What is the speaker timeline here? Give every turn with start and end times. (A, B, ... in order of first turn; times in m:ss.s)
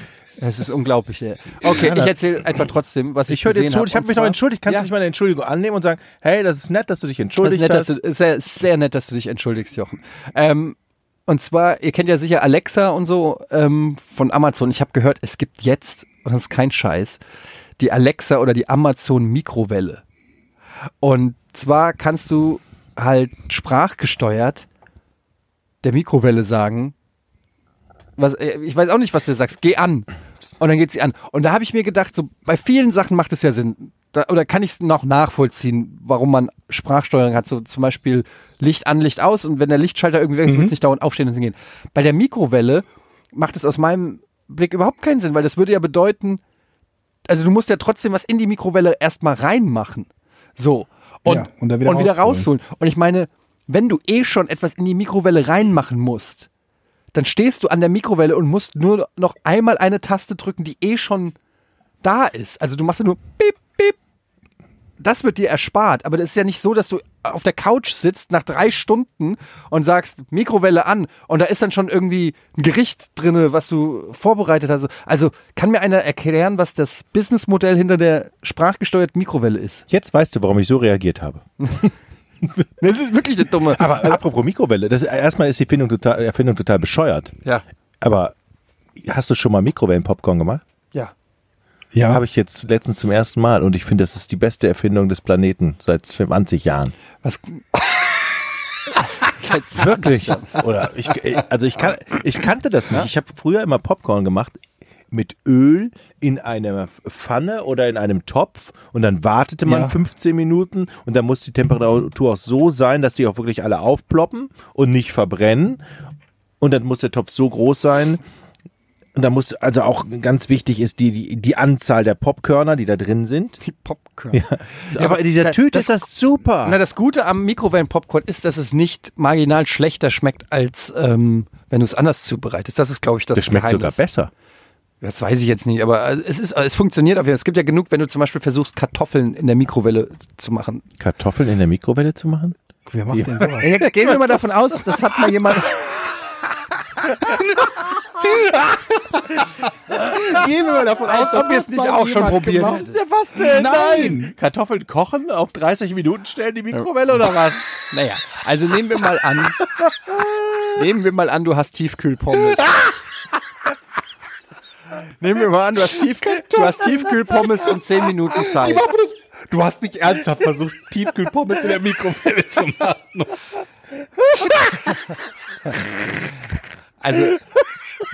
0:00.4-0:04.9 A
0:01.6-0:02.2 B
0:03.3-0:07.9 B
0:07.4-0:17.2 A
0:17.8-0:20.0 A
0:21.0-0:24.6 A
0:25.8-0:26.9 A
0:28.2-0:46.4 A
0:40.4-0:40.7 C
0:47.2-0:56.5 A
0:51.2-0:52.5 C
0:57.1-1:01.3 A
1:02.0-1:04.0 A
1:05.0-1:19.8 A
1:19.9-1:21.9 B
1:22.8-1:24.2 A
1:23.7-1:27.3 B
1:28.0-1:28.3 B
1:29.0-1:30.6 B
1:31.9-1:32.2 C
1:32.1-1:36.9 B
1:37.2-1:37.8 A
1:39.0-1:40.6 A
1:39.7-1:55.8 B
1:49.6-1:50.0 C
1:56.6-1:58.2 B
1:59.2-2:03.6 B
2:03.6-2:06.0 A
2:04.3-2:06.8 B
2:06.6-2:14.0 A
2:13.3-2:14.3 B
2:15.0-2:20.8 A
2:21.0-2:22.6 B
2:22.9-2:23.8 C
2:23.1-2:24.4 B
2:23.6-2:26.1 A
2:27.3-2:27.6 C
2:28.1-2:28.6 C
2:29.9-2:34.3 C
2:31.0-2:32.9 A
2:32.7-2:37.7 B
2:37.9-2:39.6 A
2:40.7-2:42.9 A
2:45.2-2:48.9 A
2:48.3-2:53.4 C
2:57.0-2:57.4 A